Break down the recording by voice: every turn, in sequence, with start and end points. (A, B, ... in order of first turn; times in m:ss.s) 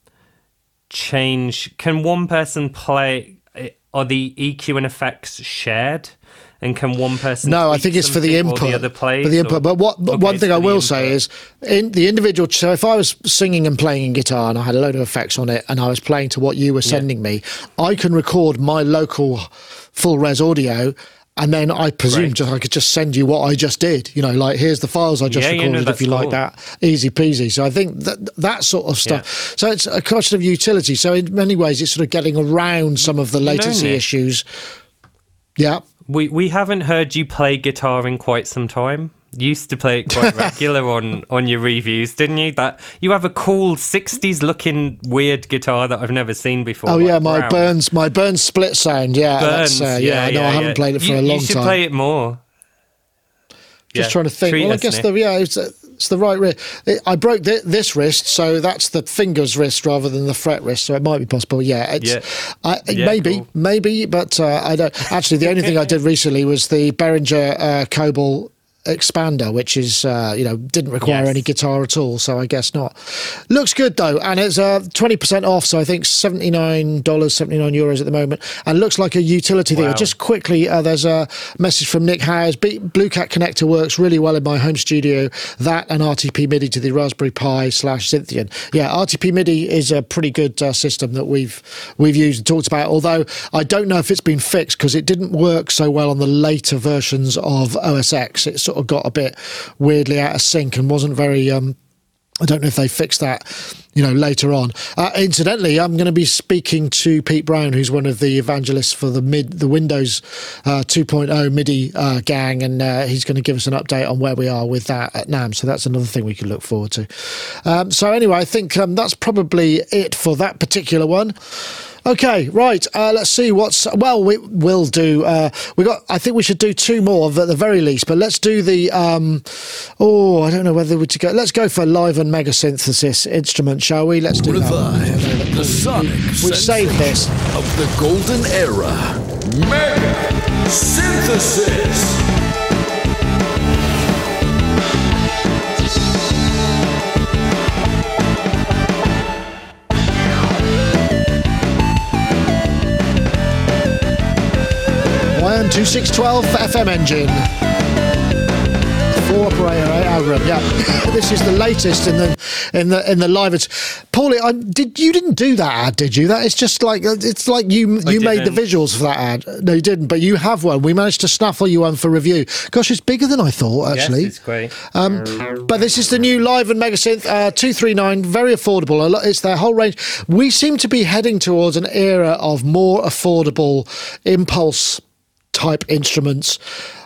0:00.9-0:11.2 A
0:07.4-0:34.4 B
0:22.1-0:22.3 A
0:25.3-0:26.4 A
0:33.4-0:34.0 A
0:35.6-0:35.8 B
0:36.1-0:47.7 A
0:46.8-0:51.8 B
0:49.4-0:52.4 A
0:53.9-1:41.8 B
0:53.9-0:55.1 A
1:02.0-1:02.2 A
1:02.9-1:03.5 A
1:11.0-1:11.4 A
1:19.7-1:20.1 A
1:42.4-2:17.4 B
2:14.3-2:22.2 C
2:35.3-2:37.5 B
2:39.1-3:06.6 B
2:48.0-2:48.6 A
2:53.9-2:54.7 A